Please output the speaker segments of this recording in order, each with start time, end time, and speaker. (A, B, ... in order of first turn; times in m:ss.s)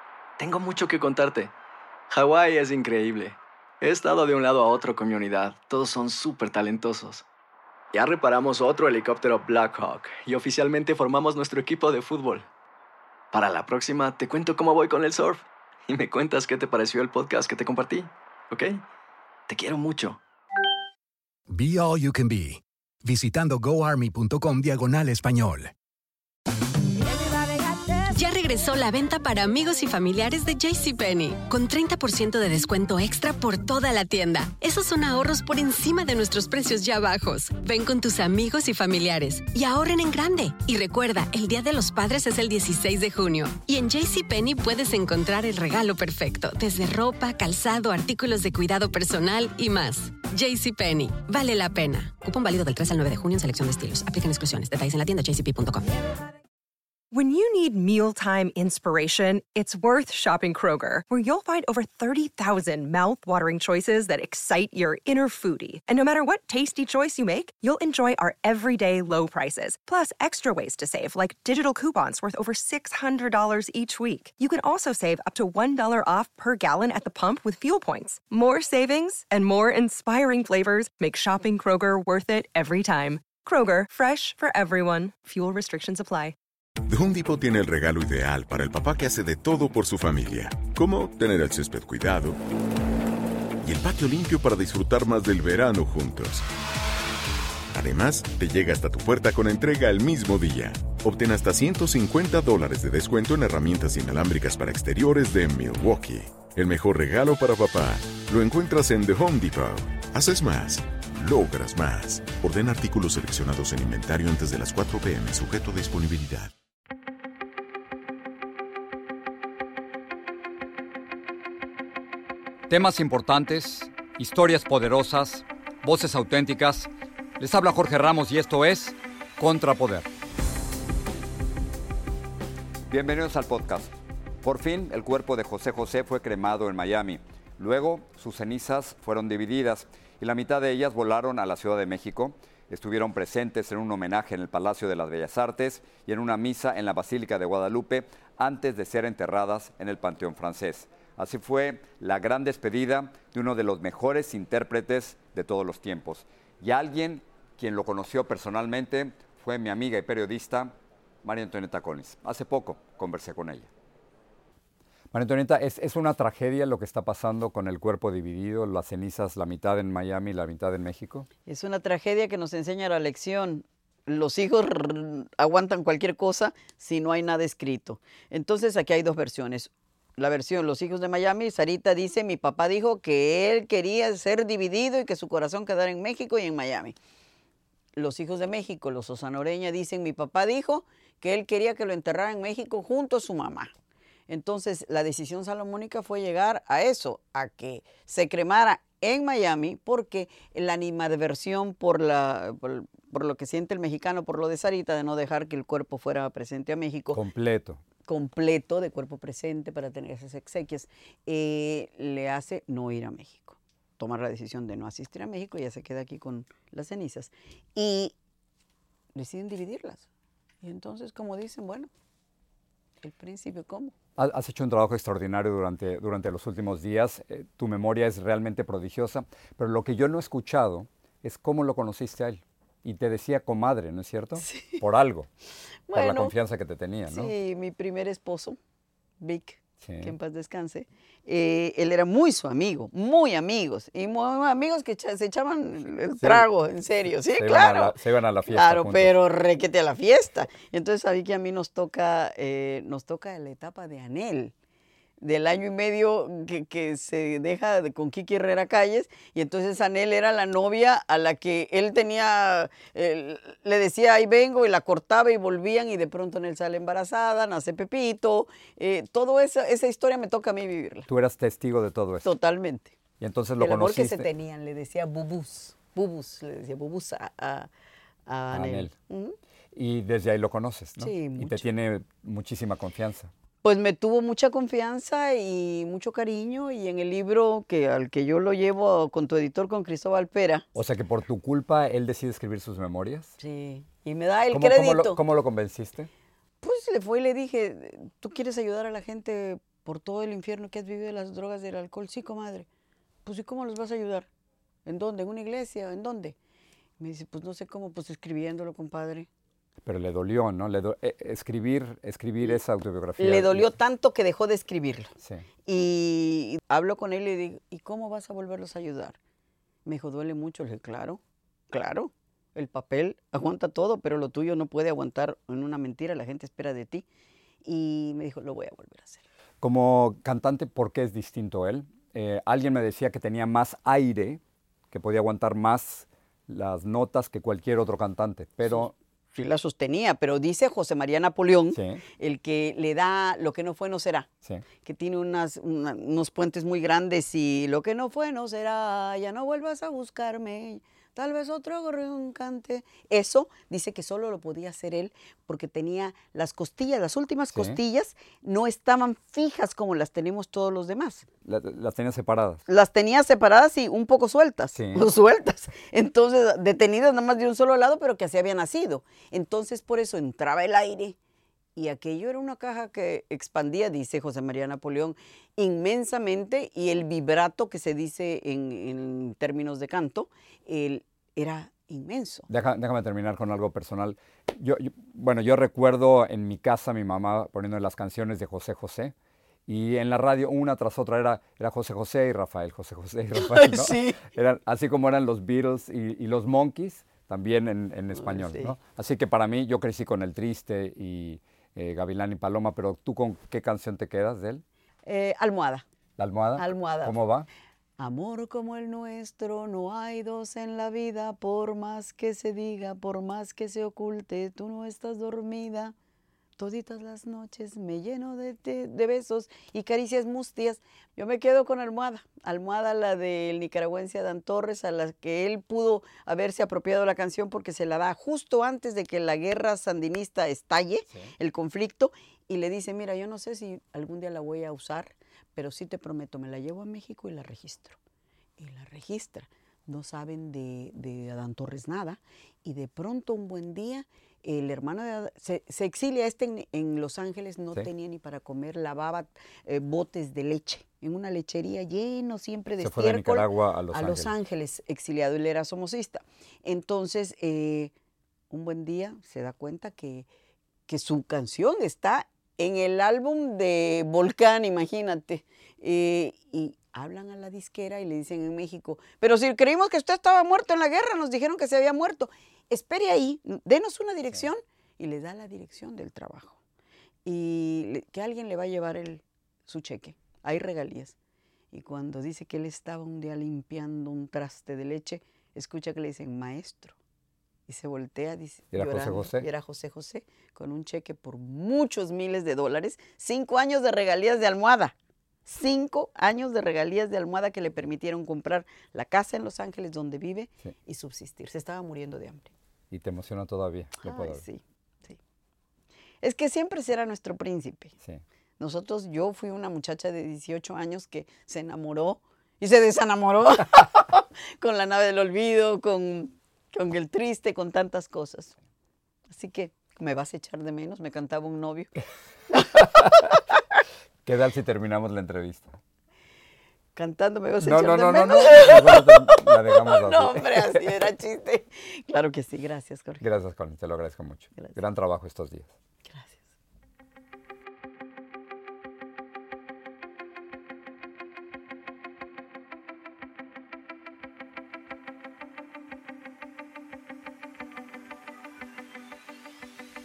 0:00.4-0:01.5 A
0:02.1-0:07.2 A
0:07.9-0:12.4 A
0:13.3-0:18.8 A
0:19.5-0:20.2 A
0:21.5-0:25.7 B
0:28.0-0:55.9 C
0:57.1-1:26.4 D
1:26.9-1:32.4 E
1:33.6-1:36.4 E
1:37.7-1:56.5 E
2:02.7-2:10.1 F
2:12.9-2:43.7 F
2:45.1-2:51.3 F
2:51.4-3:07.0 G
3:07.9-3:13.7 G
3:14.3-3:27.2 G
3:27.1-3:27.8 F
3:28.0-3:38.1 G
3:39.1-3:40.1 G
3:40.6-3:41.9 G
3:43.0-3:43.9 G
3:44.2-3:55.3 F
3:54.4-3:54.8 G
3:55.9-3:56.3 G
3:55.9-3:57.3 F
3:57.1-3:58.6 G
3:59.2-4:14.5 G
3:59.8-4:00.1 F
4:06.2-4:06.5 F
4:07.3-4:09.1 F
4:15.2-4:31.1 G
4:31.1-4:32.3 F
4:32.2-4:32.9 G
4:33.2-4:34.3 F
4:33.6-4:37.7 G
4:38.3-4:39.4 G
4:38.5-4:38.9 F
4:39.7-4:43.3 F
4:41.0-4:41.7 G
4:43.6-4:50.6 G
4:50.7-4:53.3 F
4:53.4-4:55.2 G
4:54.5-4:56.1 F
4:56.6-5:02.6 G
5:03.2-5:04.3 G
5:04.8-5:06.3 G
5:07.0-5:09.3 G
5:09.8-5:13.7 F
5:13.2-5:15.1 G
5:15.6-5:19.2 G
5:19.8-5:21.2 G
5:21.7-5:27.0 G
5:27.6-5:29.2 G
5:29.6-5:34.4 F
5:34.9-5:38.9 F
5:38.7-5:44.3 G
5:41.7-5:42.0 F
5:44.8-6:01.2 G
5:57.5-5:57.8 F
6:01.4-6:02.6 F
6:02.6-6:11.2 G
6:04.7-6:05.0 F
6:11.8-6:22.5 G
6:22.5-6:29.1 F
6:29.7-6:44.6 F
6:33.4-6:34.2 G
6:38.1-6:38.8 G
6:45.0-6:45.8 G
6:46.2-6:47.5 F
6:46.6-6:47.2 G
6:48.0-6:55.9 G
6:56.6-7:18.0 G
7:18.6-7:37.9 G
7:32.8-7:34.4 F
7:38.5-7:40.3 G
7:40.9-7:56.6 G
7:57.2-8:01.2 G
8:01.7-8:06.9 G
8:07.7-8:14.9 G
8:08.7-8:09.5 F
8:15.4-8:22.5 G
8:22.9-8:24.4 F
8:24.0-8:25.2 G
8:26.2-8:28.0 G
8:28.6-8:38.5 G
8:39.3-8:41.9 G
8:44.2-8:45.8 F
8:47.0-8:53.2 G
8:47.6-8:50.9 F
8:53.2-8:55.7 F
8:54.5-8:54.8 G
8:56.0-8:56.4 G